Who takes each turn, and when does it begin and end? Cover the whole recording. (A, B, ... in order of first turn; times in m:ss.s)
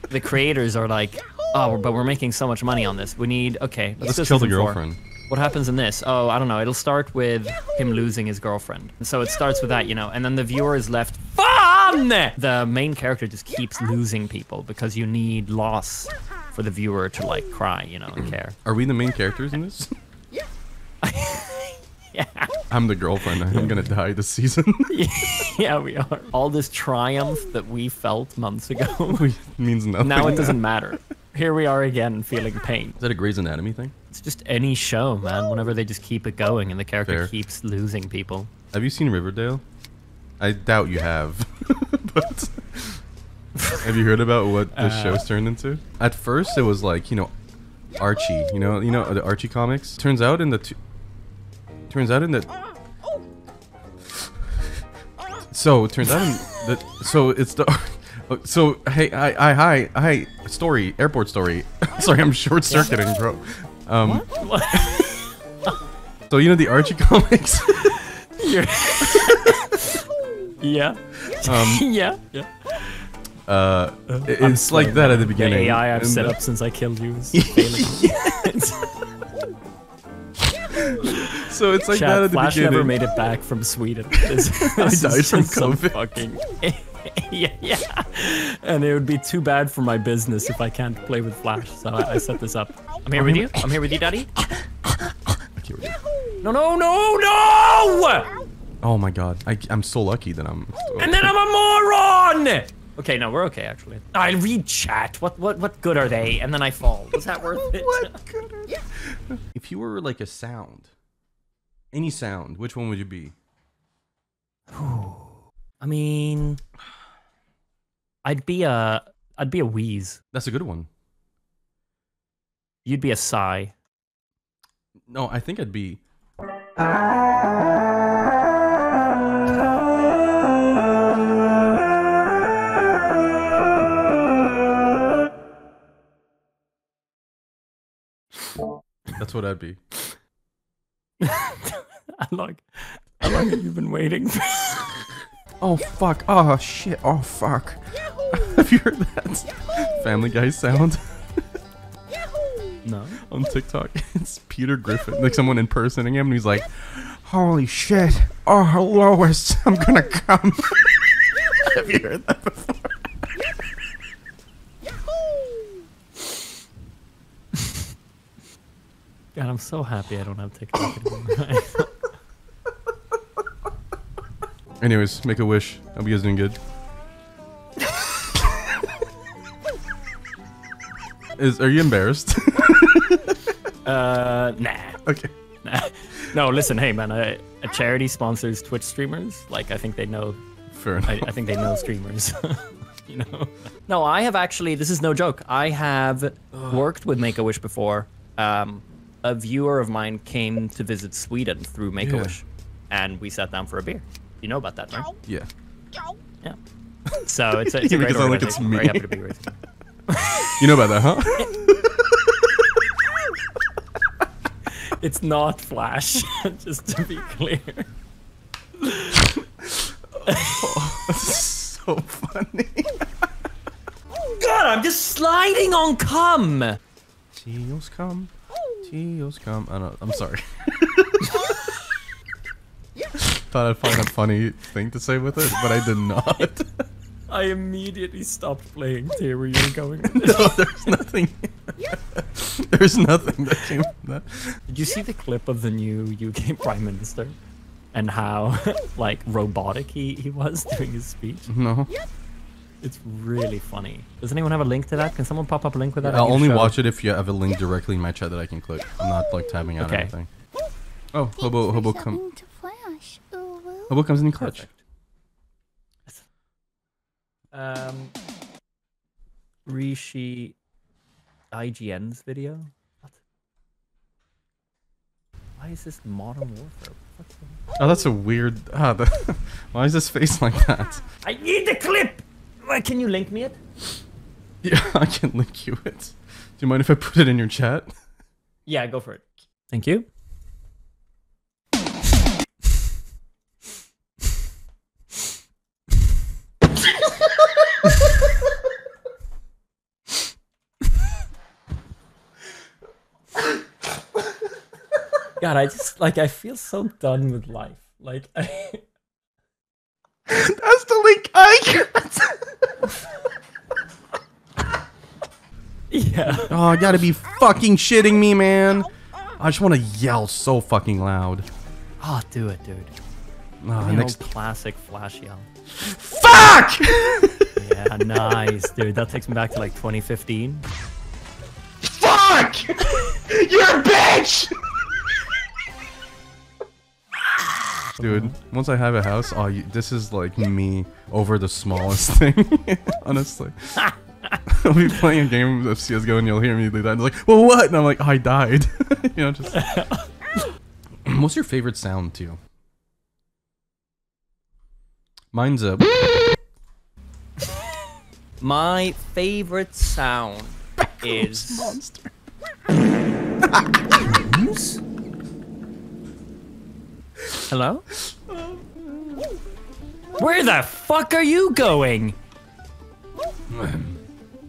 0:00.1-0:18.6 A
0:04.0-0:05.0 B
0:18.6-0:19.9 B
0:21.0-0:22.5 A
0:22.7-0:24.9 B
0:24.9-0:29.2 A
0:29.1-0:30.6 B
0:30.0-0:33.0 A
0:33.0-0:33.9 B
0:34.1-0:38.5 A
0:37.0-0:37.3 B
0:38.7-0:39.6 B
0:40.4-0:43.0 B
0:43.6-0:43.9 A
0:43.8-0:47.3 B
0:44.7-0:45.2 A
0:48.0-0:50.8 B
0:51.9-0:52.5 B
0:55.5-1:05.0 B
1:04.0-1:05.7 A
1:06.3-1:08.0 B
1:07.8-1:10.0 A
1:09.1-1:09.6 B
1:10.6-1:13.1 A
1:11.4-1:11.8 B
1:13.5-1:16.3 B
1:14.1-1:18.9 A
1:17.3-1:18.5 B
1:20.6-1:22.9 B
1:21.9-1:34.3 A
1:24.3-1:26.2 B
1:33.2-1:33.9 B
1:34.8-1:36.0 B
1:36.4-1:38.4 A
1:38.8-1:41.3 B
1:41.0-1:48.1 A
1:47.7-1:50.9 B
1:51.9-1:53.3 B
1:54.7-1:56.6 A
1:58.2-2:00.2 A
2:00.3-2:00.9 B
2:02.8-2:03.7 A
2:05.1-2:06.0 B
2:19.2-2:19.8 B
2:21.2-2:25.1 A
2:25.6-2:31.6 B
2:32.8-2:33.2 A
2:33.3-2:43.3 B
2:49.3-2:52.0 A
2:54.8-2:56.6 B
3:01.4-3:03.5 B
3:03.8-3:05.0 A
3:05.0-3:05.3 B
3:05.6-3:10.4 A
3:10.7-3:11.3 B
3:11.0-3:25.1 A
3:16.5-3:16.9 B
3:22.0-3:22.4 B
3:27.2-3:30.6 A
3:27.7-3:29.2 B
3:30.6-3:32.5 B
3:34.9-3:37.9 A
3:38.8-3:39.4 A
3:39.6-3:43.3 B
3:40.2-3:40.7 A
3:44.2-3:46.8 A
3:47.4-3:48.3 B
3:48.8-3:51.5 B
3:53.2-3:56.8 B
3:57.3-4:00.6 A
4:00.0-4:04.6 B
4:04.7-4:07.4 A
4:07.9-4:11.5 A
4:11.5-4:11.9 B
4:12.8-4:16.8 A
4:16.0-4:20.3 B
4:19.8-4:20.1 A
4:21.1-4:22.2 B
4:21.4-4:23.9 C
4:23.9-4:24.6 B
4:24.4-4:24.8 A
4:27.5-4:28.1 A
4:29.6-4:30.6 A
4:31.5-4:33.2 A
4:35.6-4:37.6 A
4:37.8-4:41.0 B
4:41.2-4:43.6 A
4:44.6-4:47.9 B
4:48.6-4:50.0 A
5:05.4-5:08.8 A
5:10.3-5:12.4 B
5:15.9-5:16.5 A
5:16.2-5:21.5 B
5:22.0-5:22.9 A
5:23.6-5:24.2 B
5:23.8-5:25.5 A
5:25.8-5:27.5 B
5:27.6-5:30.6 A
5:31.9-5:34.6 B
5:38.0-5:38.4 A
5:38.0-5:43.9 B
5:43.8-5:44.4 A
5:44.5-5:49.6 B
5:49.5-5:50.1 A
5:51.0-5:52.4 B
5:55.3-5:55.9 B
5:58.4-6:01.8 A
6:00.8-6:02.1 B
6:03.5-6:03.8 B
6:04.0-6:04.8 A
6:07.5-6:07.8 A
6:08.1-6:09.3 B
6:10.2-6:12.2 A
6:13.5-6:14.0 B